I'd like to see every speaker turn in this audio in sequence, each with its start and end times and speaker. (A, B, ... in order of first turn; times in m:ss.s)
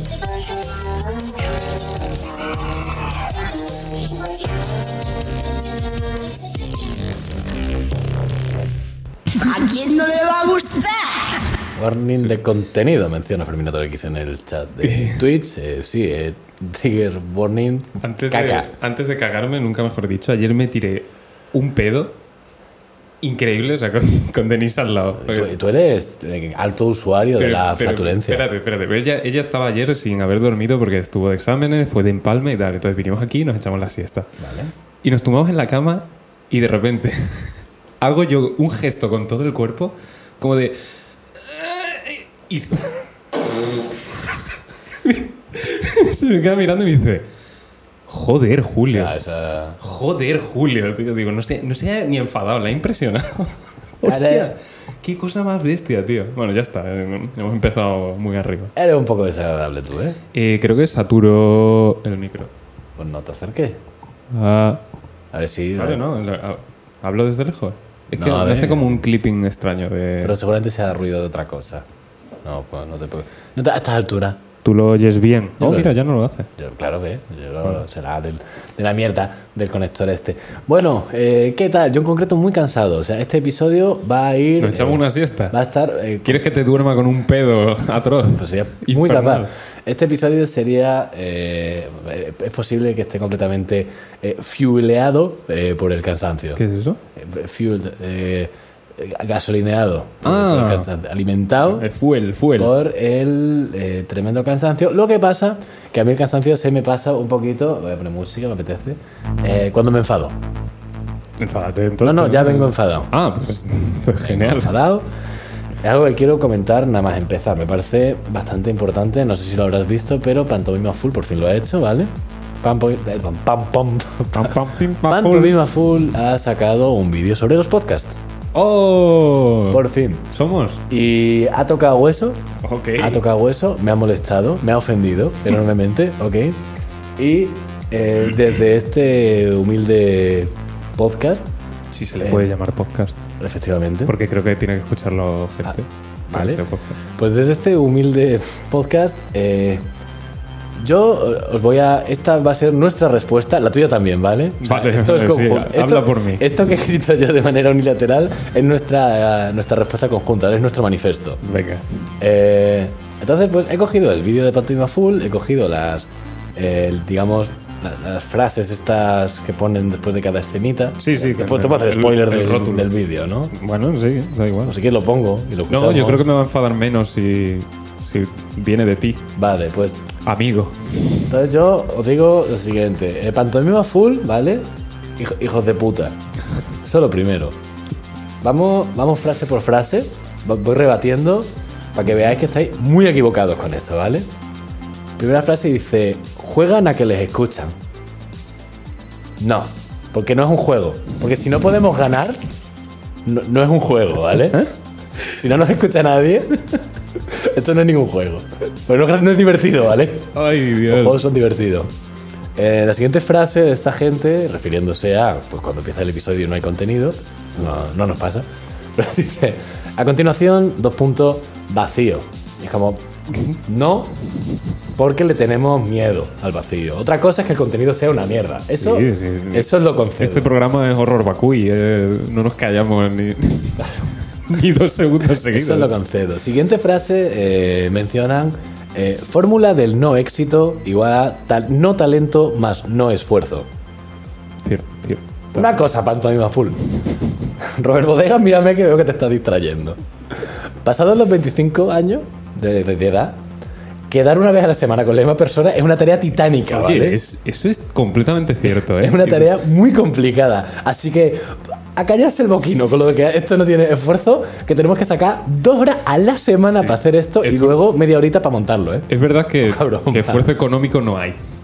0:09.3-0:11.4 A
0:11.8-0:18.7 B
0:14.8-0:15.2 C
0:18.0-0:22.2 C
0:23.2-0:25.6 C
0:25.2-0:28.4 B
0:27.4-0:34.3 C
0:34.4-0:34.7 B
0:35.0-0:40.8 C
0:41.3-0:43.0 C
0:44.0-0:44.3 C
0:44.9-0:47.2 C
0:48.1-0:49.2 C
0:48.9-0:49.8 B
0:49.8-0:58.7 C
0:54.0-0:54.5 B
0:58.8-1:00.2 B
1:00.3-1:02.5 C
1:03.0-1:03.8 B
1:04.3-1:04.8 C
1:05.3-1:06.0 B
1:05.8-1:10.4 C
1:08.2-1:08.9 B
1:10.2-1:11.8 B
1:12.4-1:14.4 B
1:14.6-1:16.5 C
1:15.6-1:15.9 B
1:16.6-1:26.4 B
1:24.6-1:25.5 C
1:26.2-1:29.5 C
1:28.4-1:36.6 B
1:36.6-1:37.0 C
1:37.2-1:41.9 B
1:40.2-1:40.9 C
1:41.7-1:42.8 C
1:42.6-1:50.3 B
1:51.4-1:54.8 C
1:52.0-1:53.1 B
1:54.2-1:55.1 B
1:55.8-2:08.2 B
2:04.3-2:05.6 C
2:08.5-2:10.8 C
2:09.7-2:10.3 B
2:10.9-2:12.4 B
2:12.6-2:13.2 C
2:13.0-2:16.6 B
2:17.2-2:21.4 B
2:21.9-2:23.2 C
2:22.2-2:22.5 B
2:23.4-2:24.1 B
2:24.0-2:27.0 C
2:26.3-2:26.6 B
2:27.1-2:29.8 B
2:30.8-2:41.4 B
2:34.6-2:36.4 C
2:41.4-2:41.8 C
2:42.2-2:53.5 B
2:51.0-2:52.9 C
2:53.5-2:54.8 C
2:54.6-2:56.2 B
2:55.7-2:59.3 C
2:59.4-3:00.0 B
3:00.2-3:00.9 C
3:01.3-3:04.7 B
3:05.2-3:06.1 B
3:06.8-3:07.6 B
3:08.4-3:14.3 B
3:15.2-3:17.7 B
3:19.4-3:22.4 B
3:23.2-3:31.9 B
3:30.3-3:31.2 C
3:32.6-3:44.2 B
3:44.9-3:50.5 B
3:48.8-3:55.9 C
3:55.5-4:03.7 B
4:04.6-4:05.7 C
4:05.5-4:06.8 B
4:07.6-4:13.4 B
4:14.1-4:17.2 B
4:16.7-4:19.5 C
4:18.7-4:29.1 B
4:26.8-4:27.8 C
4:29.1-4:31.4 C
4:29.6-4:30.5 B